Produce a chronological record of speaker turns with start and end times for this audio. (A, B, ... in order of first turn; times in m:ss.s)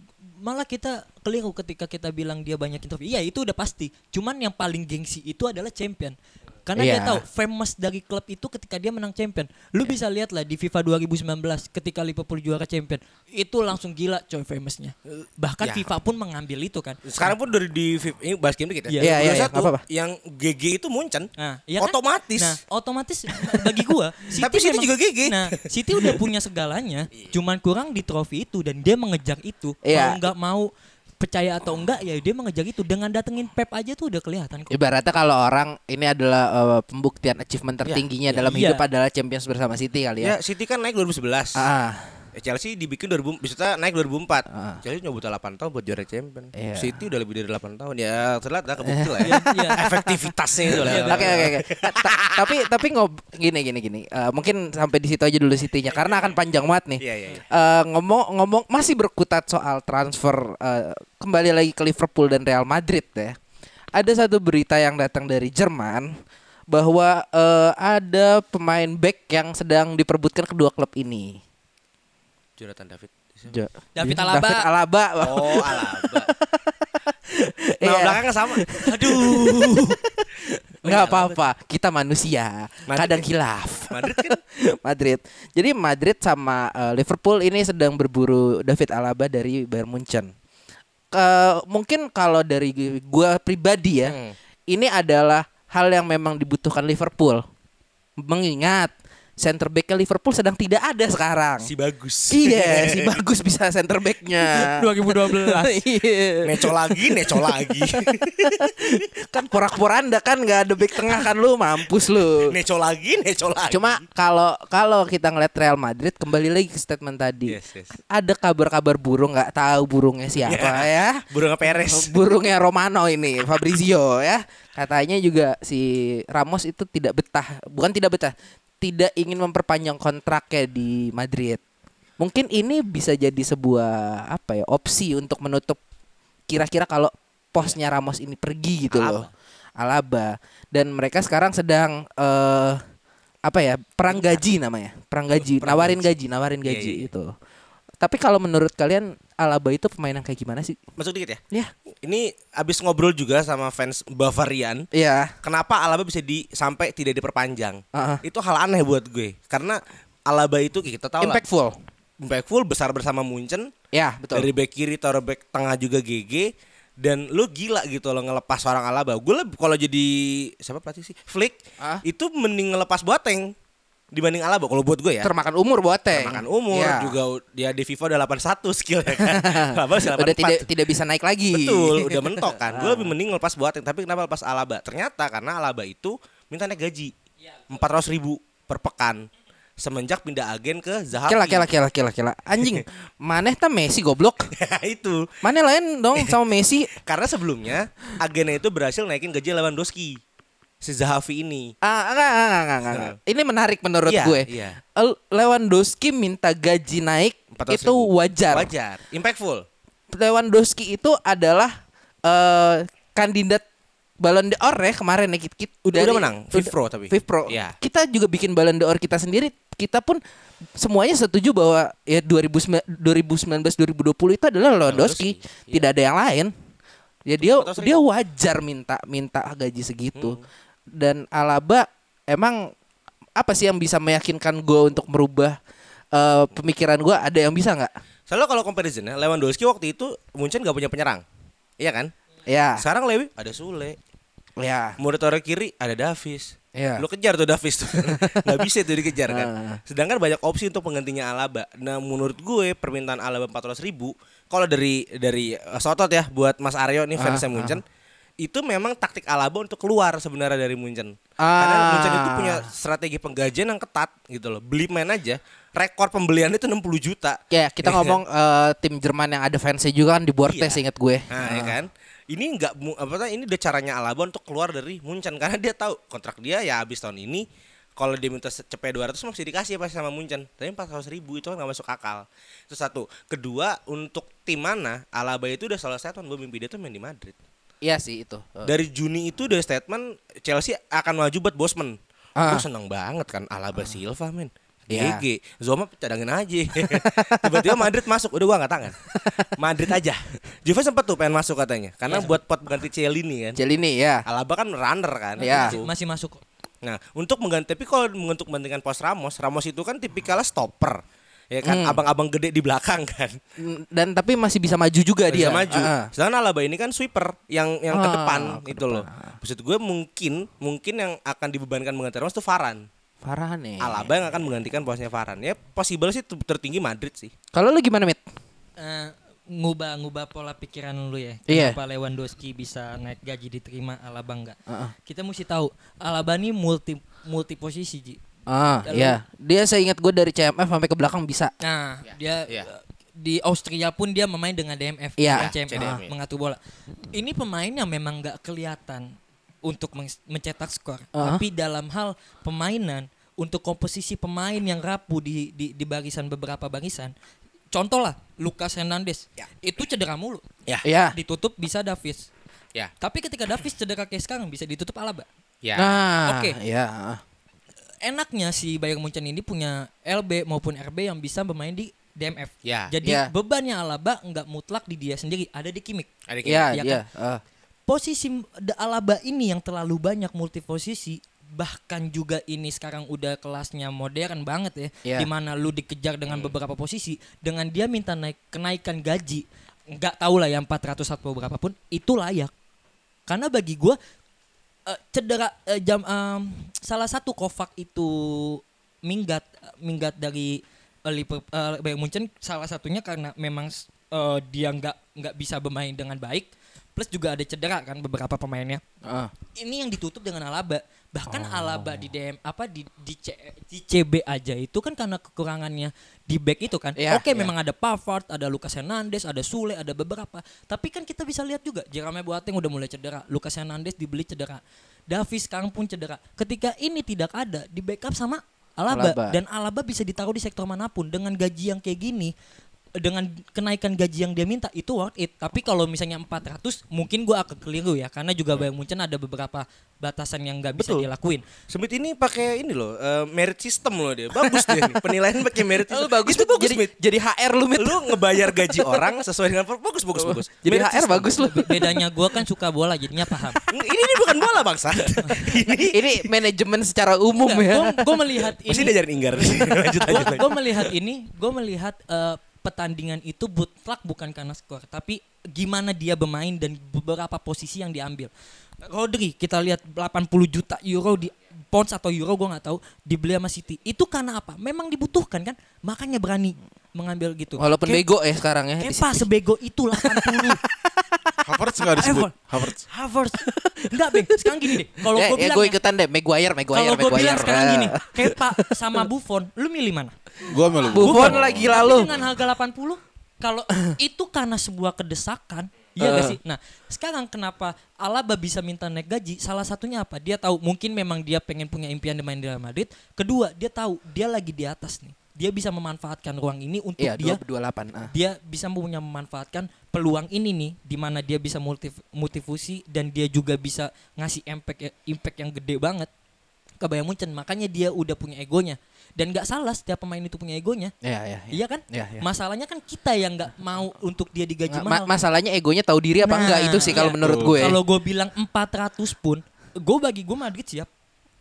0:00.4-0:17.3 A
0:06.8-0:07.2 B
0:15.6-0:15.9 C
0:17.0-0:22.6 C
0:18.9-0:19.1 A
0:19.0-0:19.8 B
0:21.4-0:30.7 A
0:24.4-0:26.2 C
0:29.8-0:30.2 B
0:31.2-0:34.7 A
0:34.7-0:40.4 B
0:37.8-0:38.5 C
0:38.5-0:38.8 A
0:40.2-0:41.7 C
0:41.6-0:42.2 B
0:42.4-0:52.6 C
0:44.5-0:44.8 B
0:46.6-0:47.0 B
0:48.8-1:03.4 B
0:49.2-0:49.8 A
0:50.8-0:51.5 A
0:57.0-0:57.4 C
1:04.0-1:06.1 B
1:06.7-1:11.4 B
1:12.6-1:13.6 C
1:13.5-1:30.3 B
1:14.0-1:14.7 A
1:15.2-1:16.3 C
1:17.8-1:19.2 C
1:18.8-1:19.9 A
1:20.8-1:21.4 C
1:22.9-1:23.3 C
1:23.9-1:24.4 C
1:31.1-1:34.2 B
1:34.0-1:34.4 C
1:34.7-1:37.4 B
1:38.2-1:41.7 B
1:41.6-1:43.2 C
1:42.3-1:47.9 B
1:44.5-1:45.8 A
1:46.4-1:48.7 C
1:48.4-1:52.6 B
1:52.4-1:54.0 C
1:53.7-1:57.6 B
1:57.5-1:58.0 C
1:58.1-2:11.6 B
2:00.4-2:02.1 C
2:12.2-2:15.8 B
2:16.5-2:22.8 B
2:18.9-2:19.3 C
2:23.5-2:27.3 B
2:24.1-2:24.4 C
2:25.4-2:26.1 C
2:26.6-2:27.1 C
2:28.0-2:30.8 B
2:31.0-2:31.4 C
2:32.0-2:34.9 C
2:34.9-2:35.4 B
2:35.4-2:41.4 C
2:37.9-2:38.2 B
2:41.2-2:41.8 B
2:42.2-2:43.7 C
2:43.9-2:44.5 B
2:44.3-2:53.5 C
2:54.1-2:55.3 C
2:55.2-2:57.2 B
2:56.1-3:00.7 C
2:59.2-3:03.2 B
3:01.5-3:07.1 C
3:07.7-3:09.3 C
3:09.8-3:11.7 C
3:11.3-3:14.5 B
3:14.5-3:15.3 C
3:15.4-3:16.9 B
3:17.0-3:20.2 C
3:20.8-3:21.7 C
3:21.8-3:28.7 B
3:24.1-3:24.8 C
3:27.5-3:29.6 C
3:30.1-3:31.8 B
3:32.3-3:33.6 B
3:34.2-3:40.2 B
3:35.9-3:37.8 C
3:40.8-3:46.5 B
3:44.9-3:45.9 C
3:47.3-3:50.4 B
3:47.4-3:48.0 C
3:50.2-3:50.4 C
3:51.0-3:52.7 B
3:53.4-3:55.6 B
3:56.1-3:57.9 B
3:58.3-4:01.2 C
4:01.8-4:02.1 C
4:02.5-4:02.8 B
4:02.8-4:04.0 C
4:04.6-4:05.0 B
4:05.0-4:17.8 C
4:06.8-4:07.0 B
4:08.0-4:08.7 B
4:09.3-4:09.8 B
4:17.2-4:17.8 B
4:18.4-4:28.2 C
4:21.4-4:22.7 B
4:27.5-4:31.8 B
4:30.4-4:37.5 C
4:38.0-4:47.4 C
4:47.8-4:48.8 B
4:48.6-5:03.6 C
4:52.4-4:52.7 B
4:54.9-4:55.2 B
4:56.8-4:57.8 B
4:59.2-4:59.5 B
5:03.6-5:04.3 B
5:04.3-5:05.9 C
5:05.4-5:05.8 B
5:05.4-5:06.4 A
5:06.8-5:13.4 C
5:11.6-5:12.0 B
5:13.6-5:16.1 B
5:15.3-5:22.9 C
5:17.9-5:19.4 B
5:23.2-5:24.1 B
5:23.8-5:27.3 C
5:27.5-5:28.2 B
5:28.8-5:38.2 A
5:31.5-5:31.8 B
5:34.7-5:34.9 B
5:38.5-5:41.5 B
5:38.8-5:39.2 A
5:41.6-5:46.6 A
5:45.2-5:46.0 B
5:45.4-5:46.1 C
5:47.1-5:49.1 A
5:49.6-5:57.1 A
5:51.2-5:51.4 B
5:57.7-6:00.4 A
6:00.8-6:01.2 B
6:01.1-6:02.3 A
6:03.0-6:05.3 A
6:05.6-6:06.0 C
6:05.8-6:07.2 B
6:06.2-6:06.6 A
6:08.0-6:16.1 A
6:12.6-6:12.9 C
6:13.0-6:13.3 B
6:16.3-6:16.7 C
6:16.4-6:17.4 B
6:16.7-6:17.0 A
6:17.9-6:32.5 A
6:33.3-6:34.0 A
6:34.9-6:48.8 A
6:49.0-6:49.3 B
6:49.6-7:12.3 A
6:51.3-6:52.0 B
6:57.0-6:57.5 B
7:08.9-7:09.4 B
7:13.0-7:21.4 A
7:20.8-7:21.1 C
7:21.7-7:26.9 C
7:24.4-7:29.2 B
7:27.8-7:31.4 C
7:30.2-7:32.0 B
7:31.4-7:33.6 A
7:33.3-7:33.8 B
7:33.7-7:36.3 C
7:35.4-7:38.1 B
7:37.4-7:39.0 A
7:38.7-7:40.8 C
7:39.6-7:48.3 A
7:48.8-7:58.1 A
7:57.6-7:59.3 B
7:58.8-8:00.6 A
7:59.9-8:02.1 B
8:01.4-8:02.8 D
8:02.0-8:05.8 A
8:03.4-8:09.0 B
8:06.7-8:10.1 A
8:10.4-8:12.3 D
8:10.9-8:12.2 B
8:10.9-8:27.4 A
8:16.0-8:16.4 B
8:27.0-8:28.1 B
8:28.1-8:36.1 A
8:36.8-8:40.9 A
8:41.0-8:42.3 B
8:41.5-8:45.1 A
8:44.7-8:47.8 B
8:46.2-8:50.9 A
8:47.0-8:47.8 D